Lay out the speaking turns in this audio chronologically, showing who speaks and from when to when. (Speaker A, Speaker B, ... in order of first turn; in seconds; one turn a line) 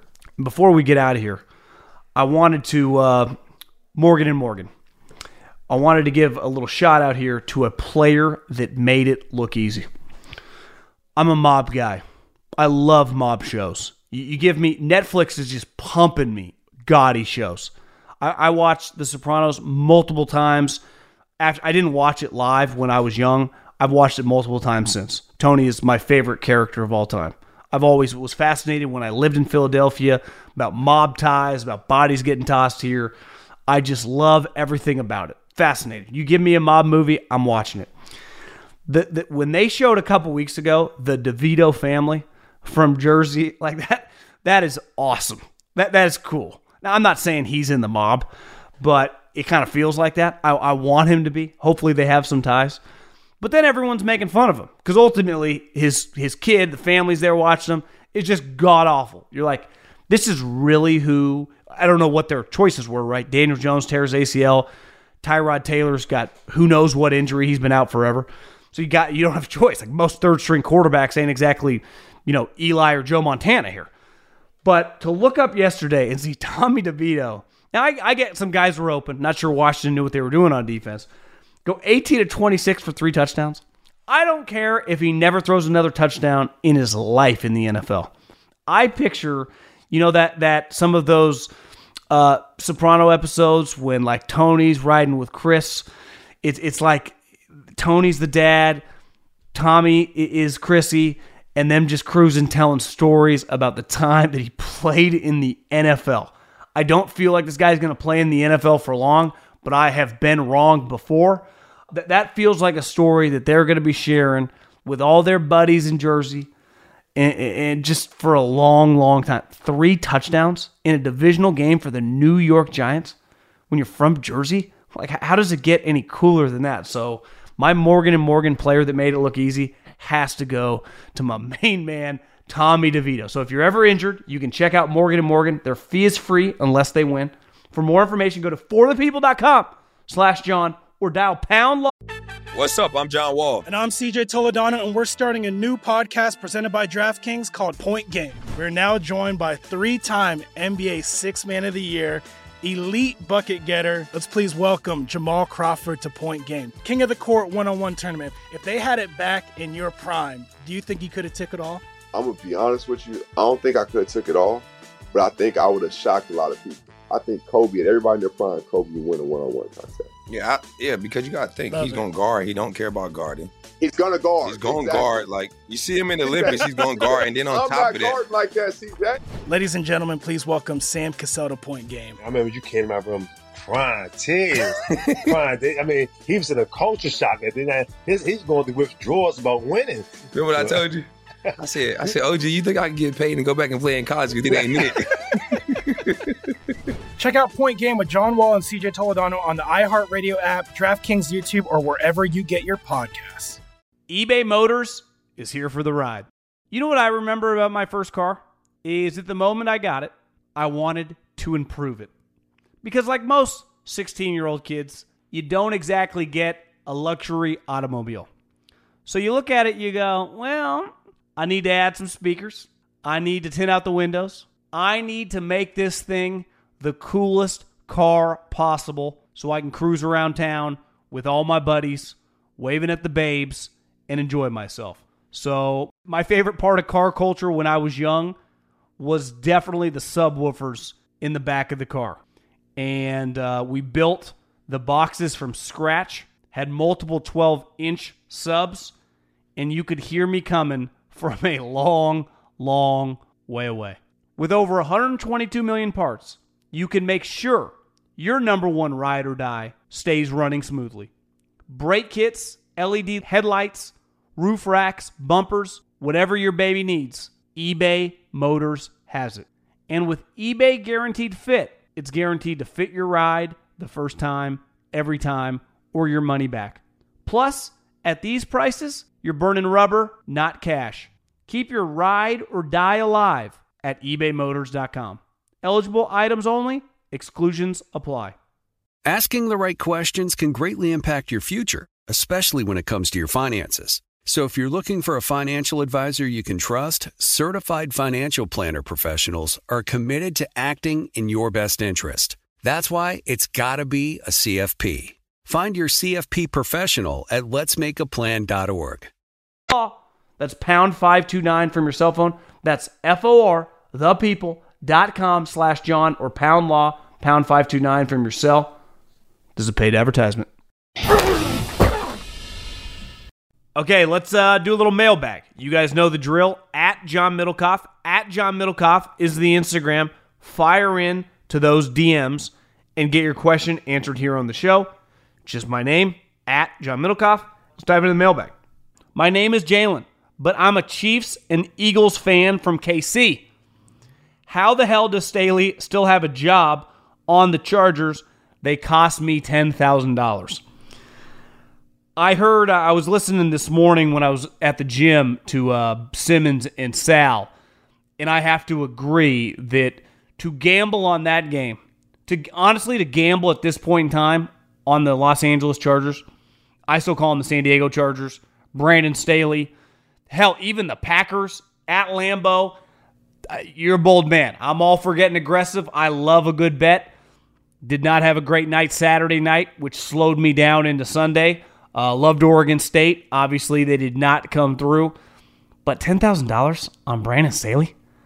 Speaker A: 0.4-1.4
Speaker A: 2.1-3.4
Speaker A: 4.0-4.7
Speaker A: 5.7-9.9
Speaker A: 11.2-12.0
Speaker A: 12.6-20.8
Speaker A: 21.4-33.1
Speaker A: 33.7-37.9
Speaker A: 38.9-48.3
Speaker A: 48.8-52.8
Speaker A: 53.4-64.7
Speaker A: 65.2-73.9
Speaker A: 74.6-81.1
Speaker A: 81.6-88.1
Speaker A: 88.7-91.5
Speaker A: 92.1-95.9
Speaker A: 96.4-97.2
Speaker A: 97.8-98.8
Speaker A: 99.5-116.5
Speaker A: 117.2-123.2
Speaker A: 123.7-141.9
Speaker B: 142.5-143.7
Speaker C: 143.6-161.8
Speaker D: 162.1-170.1
Speaker B: 170.3-173.5
Speaker C: 171.7-172.0
Speaker D: 173.8-175.3
Speaker B: 174.4-178.2
Speaker D: 176.2-179.2
Speaker C: 179.5-182.2
Speaker E: 182.2-190.8
Speaker B: 185.1-185.3
Speaker B: 190.3-191.1
Speaker B: 191.6-196.1
Speaker E: 194.5-194.8
Speaker C: 197.2-203.6
Speaker A: 204.1-212.1
Speaker A: 212.8-218.3
Speaker A: 219.1-238.4
Speaker A: 239.0-242.2
Speaker A: 242.8-248.9
Speaker A: 249.6-261.1
Speaker A: 261.7-288.4
Speaker F: 289.1-309.1
Speaker A: 309.7-318.7
Speaker A: 319.6-320.5
Speaker A: 323.8-334.9
Speaker A: 335.4-338.5
Speaker A: 339.1-343.4
Speaker A: 344.5-350.6
Speaker A: 352.2-357.5
Speaker A: 358.2-366.2
Speaker A: 366.9-369.7
Speaker A: 370.3-372.8
Speaker A: 373.5-377.1
Speaker A: 377.8-385.1
Speaker A: 385.8-387.9